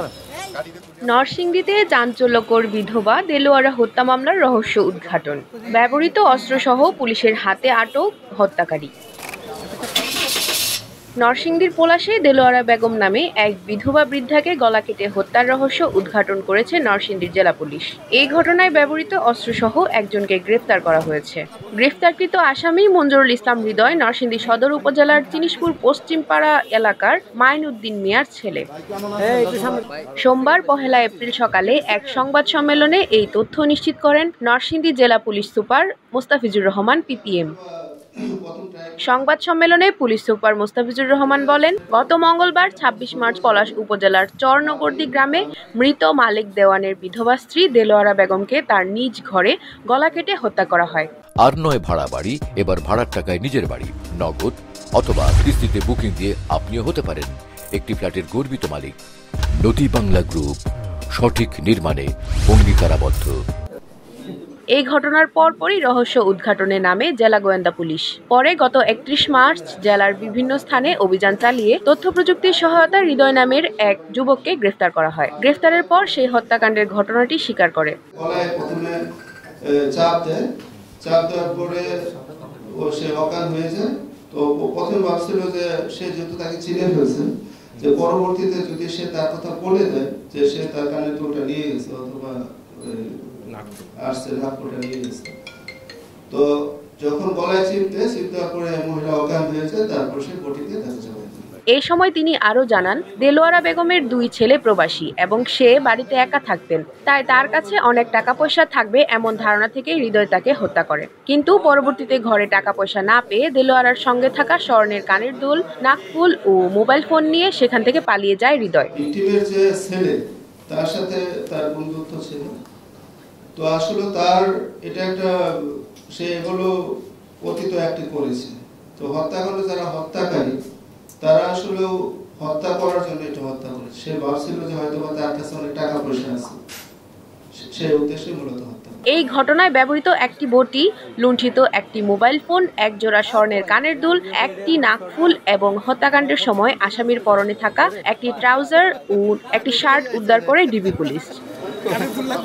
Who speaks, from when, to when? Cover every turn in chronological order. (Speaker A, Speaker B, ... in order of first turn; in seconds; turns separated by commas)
Speaker A: 1.1-8.9, Speaker A: 11.2-28.6, Speaker A: 30.2-37.5, Speaker B: 37.4-39.0, Speaker A: 39.0-51.1, Speaker B: 43.0-43.6, Speaker B: 44.6-45.5, Speaker C: 51.4-58.9, Speaker C: 59.6-60.6, Speaker C: 61.1-63.3, Speaker A: 64.7-78.0, Speaker B: 78.2-79.0, Speaker B: 79.7-80.4, Speaker B: 81.0-81.9, Speaker B: 82.6-93.5, Speaker B: 94.0-95.3, Speaker B: 97.0-101.5, Speaker A: 101.7-118.9, Speaker B: 119.0-120.2, Speaker B: 120.7-122.5, Speaker B: 123.5-126.7, Speaker B: 127.4-130.6, Speaker B: 131.2-136.6, Speaker B: 137.6-139.0, Speaker A: 139.1-151.4